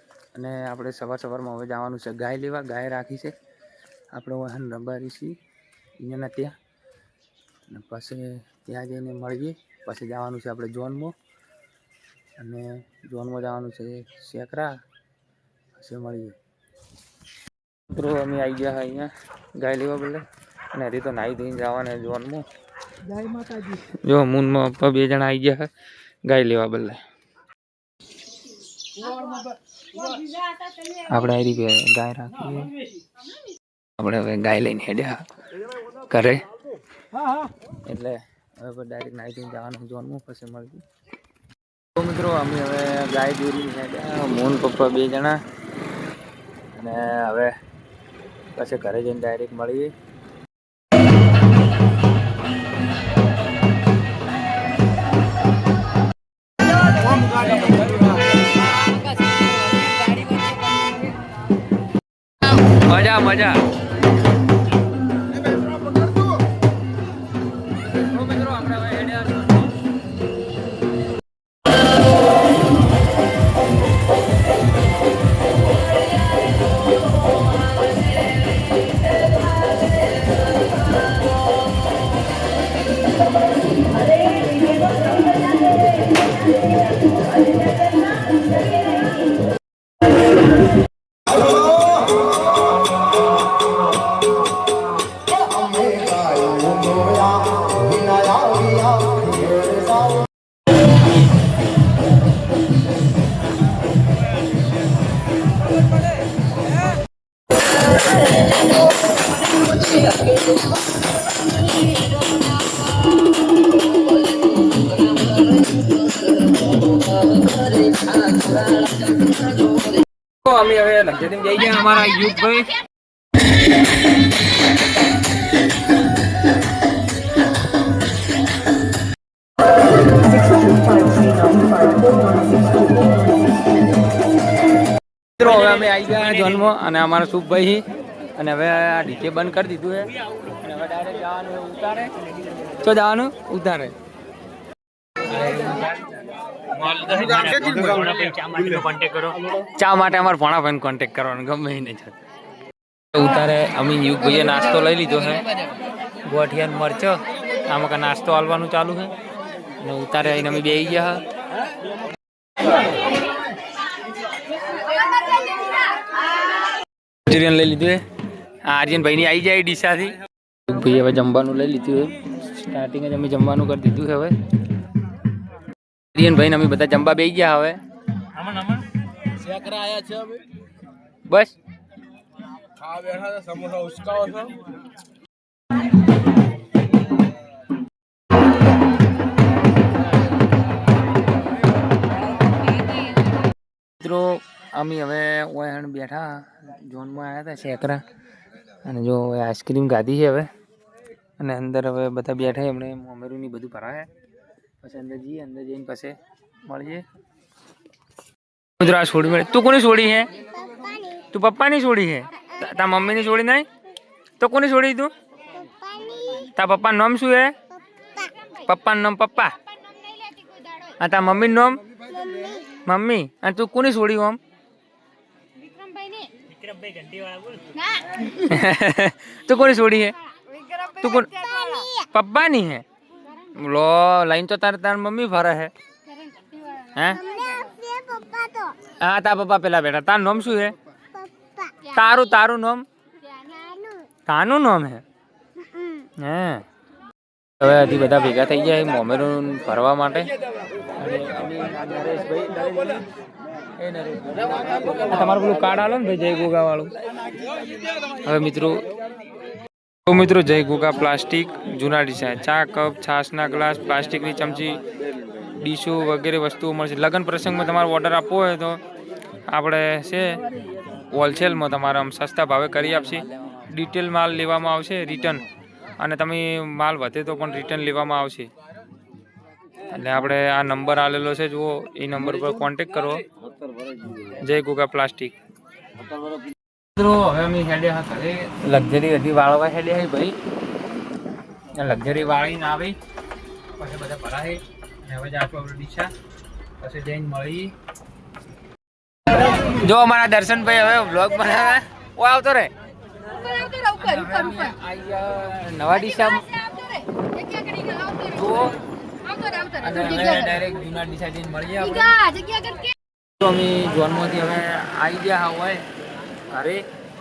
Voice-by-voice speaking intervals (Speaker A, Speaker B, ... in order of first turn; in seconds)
Speaker A: 0.3-3.3, 4.1-5.3, 6.0-6.5, 7.7-11.1, 12.4-14.8, 15.8-16.3, 17.9-22.4, 23.6-25.7, 26.2-27.0, 31.0-32.7, 34.0-35.2, 36.1-36.4, 37.8-40.8, 42.0-45.4, 46.7-47.5, 48.5-49.9, 59.9-60.5, 62.4-63.7, 68.0-69.5, 120.5-122.8, 135.4-137.8, 138.4-142.1, 142.8-143.9, 145.3-146.0, 146.7-152.2, 153.1-155.4, 156.2-159.1, 159.8-161.2, 167.2-168.0, 168.6-174.3, 176.1-177.8, 181.3-181.5, 194.0-198.0, 198.8-200.5, 201.4-204.1, 204.8-207.0, 208.8-210.3, 211.3-213.7, 214.4-215.1, 216.4-217.5, 218.5-219.6, 221.0-221.8, 222.7-224.4, 228.2-230.2, 230.9-232.8, 233.4-235.7, 236.9-237.3, 238.9-240.7, 241.8-242.8, 244.2-245.0, 246.2-246.6, 247.6-250.3, 251.0-253.0, 253.8-256.9, 258.2-258.8, 260.1-264.8, 265.6-268.8, 269.5-270.4, 271.1-275.4, 276.0-278.5, 279.9-283.2, 284.2-285.4, 287.0-290.4, 291.8-293.0, 293.8-296.1, 296.8-297.7, 299.3-302.7, 303.7-306.8, 308.0-308.8, 309.7-312.3, 313.4-315.9, 316.5-316.8
Speaker B: 131.0-132.8, 179.4-180.4, 182.8-184.6, 210.7-211.2, 215.6-216.4, 219.8-220.8, 222.2-222.5, 225.6-228.0, 231.6-231.9, 236.2-236.6, 237.3-238.8, 243.3-244.1, 303.4-303.8, 307.3-308.1, 309.3-309.6, 312.2-312.9